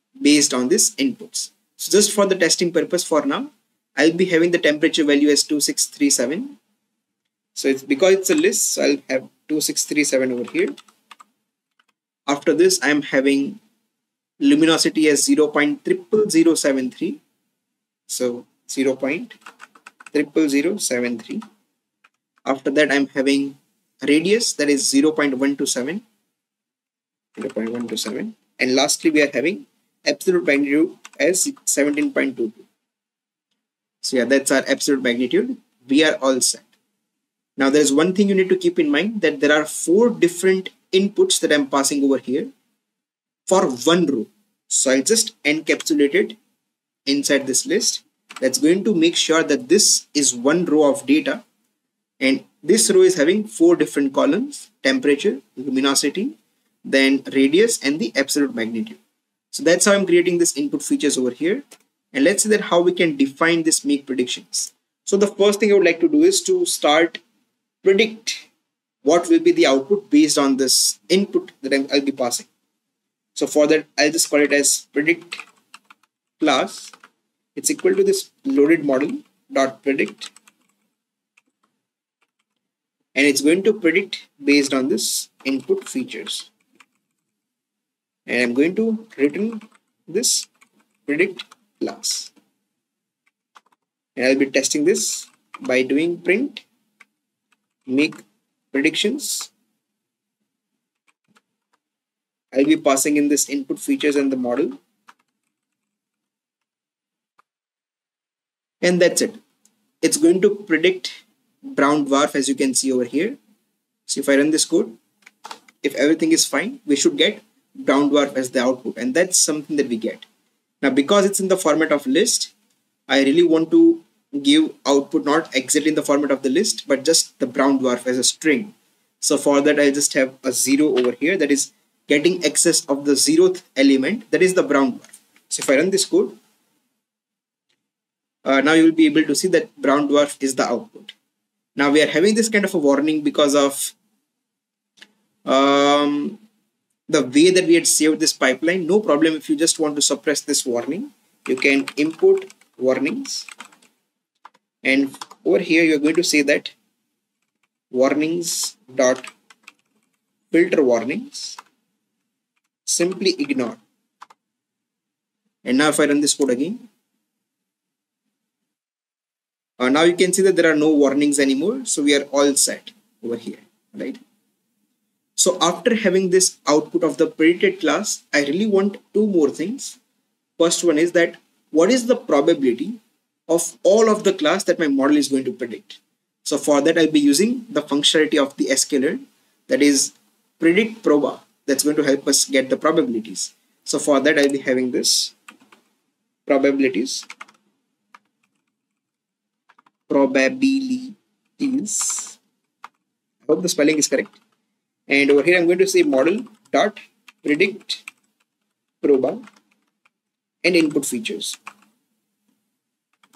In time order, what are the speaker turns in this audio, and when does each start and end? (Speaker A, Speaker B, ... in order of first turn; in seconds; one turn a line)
Speaker A: 0.2-6.6
Speaker A: 7.5-10.7
Speaker A: 12.3-13.6
Speaker A: 14.4-17.2
Speaker A: 18.1-19.4
Speaker A: 20.1-21.4
Speaker A: 22.4-26.0
Speaker A: 27.4-32.6
Speaker A: 34.0-36.7
Speaker A: 37.6-42.5
Speaker A: 43.5-46.4
Speaker A: 47.0-51.4
Speaker A: 52.2-56.3
Speaker A: 56.8-59.0
Speaker A: 59.5-67.2
Speaker A: 67.8-68.5
Speaker A: 69.0-72.5
Speaker A: 73.3-75.4
Speaker A: 76.4-76.9
Speaker A: 77.5-80.3
Speaker A: 83.1-86.5
Speaker A: 88.3-90.5
Speaker A: 91.1-92.3
Speaker A: 94.2-96.6
Speaker A: 97.9-99.5
Speaker A: 102.5-104.8
Speaker A: 108.8-109.4
Speaker A: 110.0-113.4
Speaker A: 114.1-115.0
Speaker A: 115.8-120.2
Speaker A: 120.8-122.5
Speaker A: 123.1-136.3
Speaker A: 138.4-141.1
Speaker A: 141.8-143.9
Speaker A: 145.4-146.4
Speaker A: 147.1-153.5
Speaker A: 154.8-156.7
Speaker A: 157.9-159.3
Speaker A: 160.5-161.6
Speaker A: 162.8-163.8
Speaker A: 165.6-166.8
Speaker A: 169.8-174.2
Speaker A: 175.4-180.0
Speaker A: 180.6-195.3
Speaker A: 196.4-197.2
Speaker A: 200.1-202.4
Speaker A: 203.4-204.4
Speaker A: 205.1-208.0
Speaker A: 209.0-209.4
Speaker A: 210.6-211.6